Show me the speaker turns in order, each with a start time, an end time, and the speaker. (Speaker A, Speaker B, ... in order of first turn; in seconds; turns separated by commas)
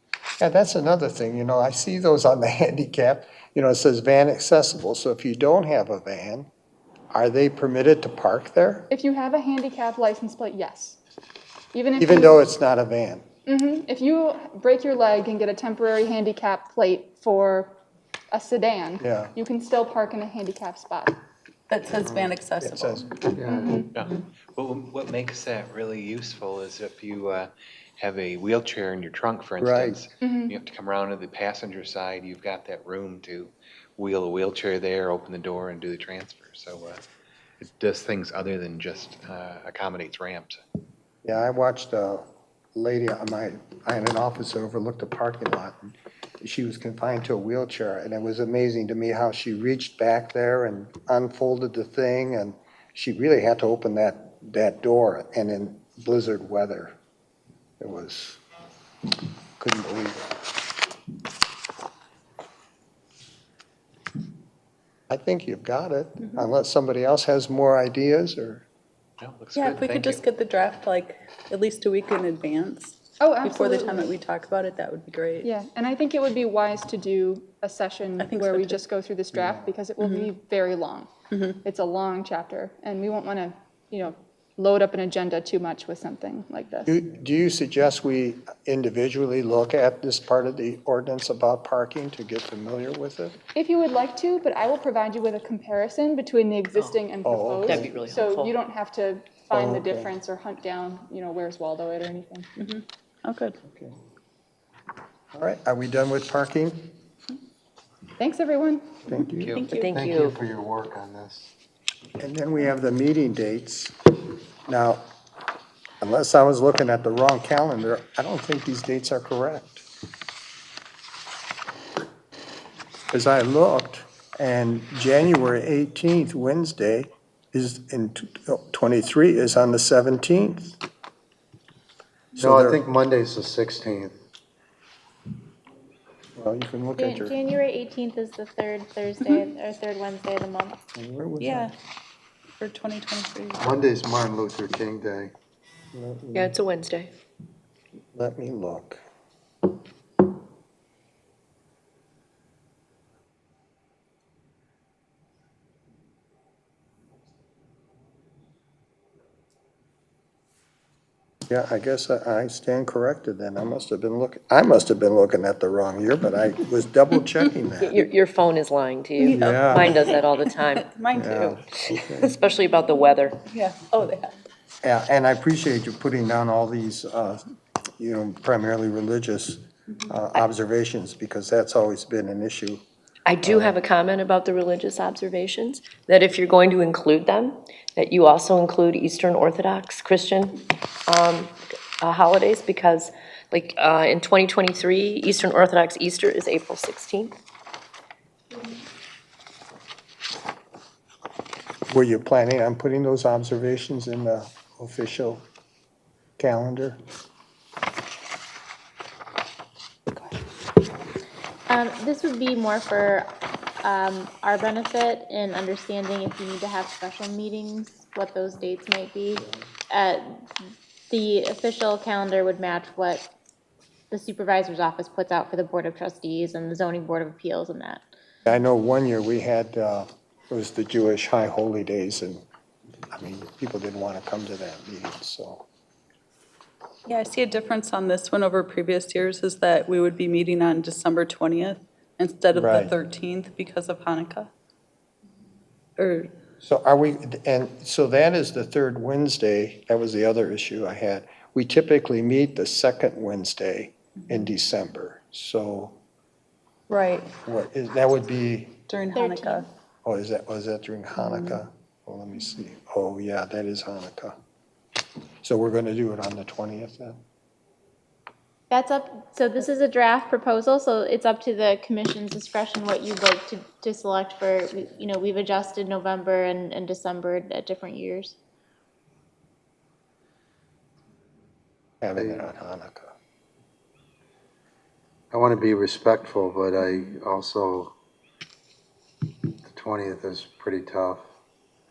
Speaker A: 0.4-6.5, Speaker A: 7.1-8.9, Speaker B: 8.9-11.0, Speaker B: 11.7-12.4, Speaker A: 12.0-13.2, Speaker B: 13.4-17.7, Speaker B: 18.3-21.2, Speaker A: 19.0-19.3, Speaker C: 21.7-23.1, Speaker A: 22.0-23.1, Speaker D: 23.3-23.9, Speaker B: 23.5-23.9, Speaker E: 23.9-37.0, Speaker A: 29.6-29.9, Speaker B: 30.2-30.6, Speaker E: 37.6-40.6, Speaker A: 41.2-56.9, Speaker A: 57.8-58.4, Speaker A: 59.6-60.3, Speaker A: 65.1-68.6, Speaker E: 69.2-70.2, Speaker C: 69.5-75.5, Speaker B: 73.2-74.1, Speaker B: 75.4-81.1, Speaker C: 78.2-78.8, Speaker A: 79.3-79.6, Speaker C: 80.0-80.3, Speaker C: 81.3-81.6, Speaker B: 81.6-86.9, Speaker A: 86.9-93.4, Speaker B: 93.5-102.5, Speaker A: 97.2-97.9, Speaker F: 97.6-98.5, Speaker A: 99.5-100.2, Speaker C: 102.6-103.6, Speaker A: 103.7-104.0, Speaker A: 105.3-106.9, Speaker B: 108.2-109.0, Speaker A: 109.1-109.5, Speaker E: 109.3-109.8, Speaker C: 109.4-110.3, Speaker F: 109.8-110.3, Speaker D: 109.8-111.5, Speaker A: 112.2-114.0, Speaker A: 114.7-115.0, Speaker A: 116.0-119.8, Speaker A: 123.1-130.8, Speaker A: 132.3-132.8, Speaker D: 132.4-134.1, Speaker A: 136.3-137.3, Speaker G: 137.0-140.8, Speaker A: 140.9-141.7, Speaker C: 141.4-141.7, Speaker C: 142.6-143.6, Speaker D: 143.6-145.3, Speaker A: 145.9-146.5, Speaker F: 146.3-147.1, Speaker A: 148.1-149.0, Speaker A: 161.5-168.0, Speaker F: 167.8-170.8, Speaker C: 169.2-171.6, Speaker A: 169.3-170.0, Speaker A: 171.1-172.3, Speaker F: 172.2-173.3, Speaker C: 173.4-174.3, Speaker A: 174.8-177.4, Speaker A: 178.0-182.8, Speaker F: 183.3-197.3, Speaker A: 183.4-183.8, Speaker A: 201.9-205.4, Speaker A: 206.4-207.0, Speaker G: 211.7-213.3, Speaker G: 213.8-220.5, Speaker G: 221.1-223.3, Speaker G: 224.1-228.0, Speaker A: 228.4-232.4, Speaker A: 233.1-235.6, Speaker C: 237.1-244.5, Speaker A: 242.5-242.9, Speaker C: 246.0-246.3, Speaker A: 246.6-256.0, Speaker C: 256.9-257.3, Speaker A: 257.4-258.8, Speaker C: 258.9-259.7, Speaker G: 259.1-259.6, Speaker A: 260.0-264.4, Speaker C: 261.2-261.6, Speaker A: 265.4-267.2, Speaker G: 268.7-278.4, Speaker A: 282.0-283.1, Speaker D: 282.2-282.4, Speaker D: 285.3-287.9, Speaker D: 289.6-291.2